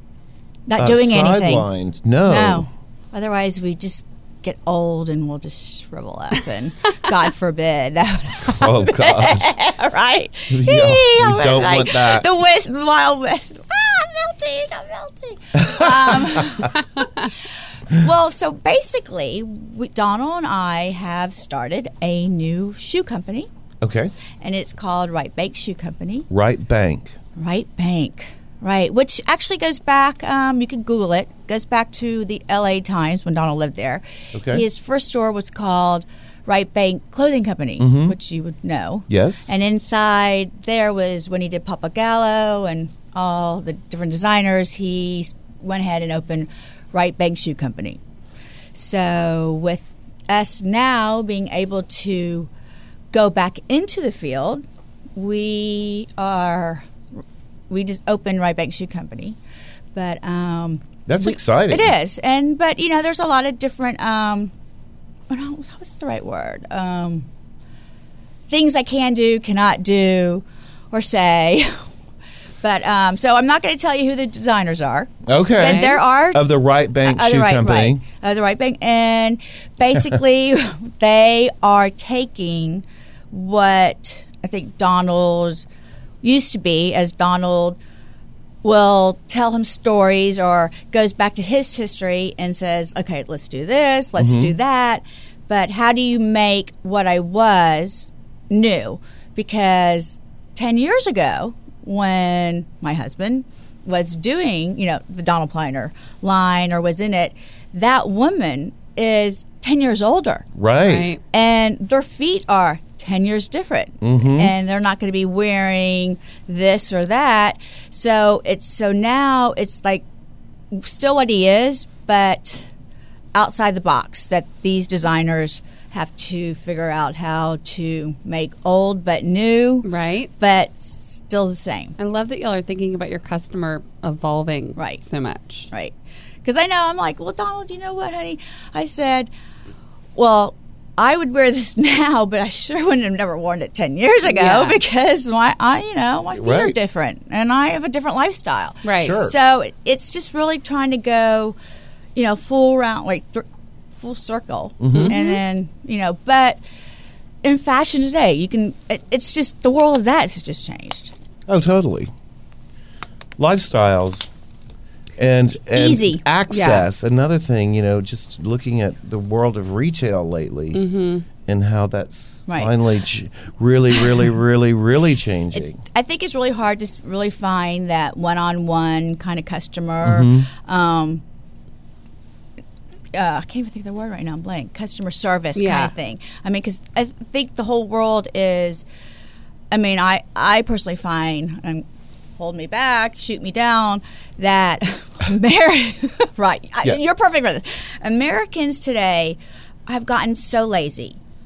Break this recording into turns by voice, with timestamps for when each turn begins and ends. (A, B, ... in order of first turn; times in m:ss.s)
0:00.7-0:01.7 A
0:00.8-0:02.7 B
0:02.2-0:17.3 A
0:08.4-0:09.5 B
0:10.5-0:12.2 B
0:15.6-0:16.3 B
0:17.9-0:23.5 A
0:23.8-0:24.1 B
0:24.4-0:26.3 A
0:26.3-0:27.2 B
0:27.4-0:48.0 A
0:34.3-0:34.6 B
0:37.8-0:38.2 B
0:39.1-0:39.5 B
0:48.7-0:52.5 A
0:53.1-0:54.6 A
0:55.2-0:56.9 A
0:57.7-0:59.4 A
0:59.9-1:04.5 A
1:01.1-1:01.9 B
1:05.3-1:07.2 A
1:08.5-1:11.8 A
1:12.6-1:25.6 A
1:15.2-1:18.0 B
1:15.6-1:16.0 C
1:26.2-1:27.8 A
1:28.6-1:50.4 A
1:34.2-1:34.5 B
1:50.6-1:51.1 B
1:50.8-1:51.2 C
1:51.3-2:00.0 A
1:54.0-1:54.5 B
2:00.7-2:02.7 A
2:03.3-2:12.0 A
2:09.8-2:10.3 C
2:12.0-2:15.7 C
2:14.8-2:15.0 A
2:15.7-2:19.3 A
2:20.2-2:31.6 A
2:24.2-2:24.8 C
2:26.3-2:26.8 B
2:28.8-2:29.2 C
2:28.9-2:29.3 B
2:32.1-2:36.6 A
2:34.8-2:35.1 B
2:34.9-2:35.4 C
2:37.4-2:41.1 A
2:41.5-2:42.1 B
2:43.4-2:44.3 B
2:45.2-2:50.8 B
2:45.7-2:46.2 A
2:46.5-2:46.8 C
2:50.7-2:51.2 C
2:51.4-2:55.8 B
2:55.5-3:01.2 A
3:00.0-3:00.5 B
3:03.1-3:08.8 A
3:05.5-3:05.9 C
3:09.7-3:11.8 A
3:12.4-3:21.2 A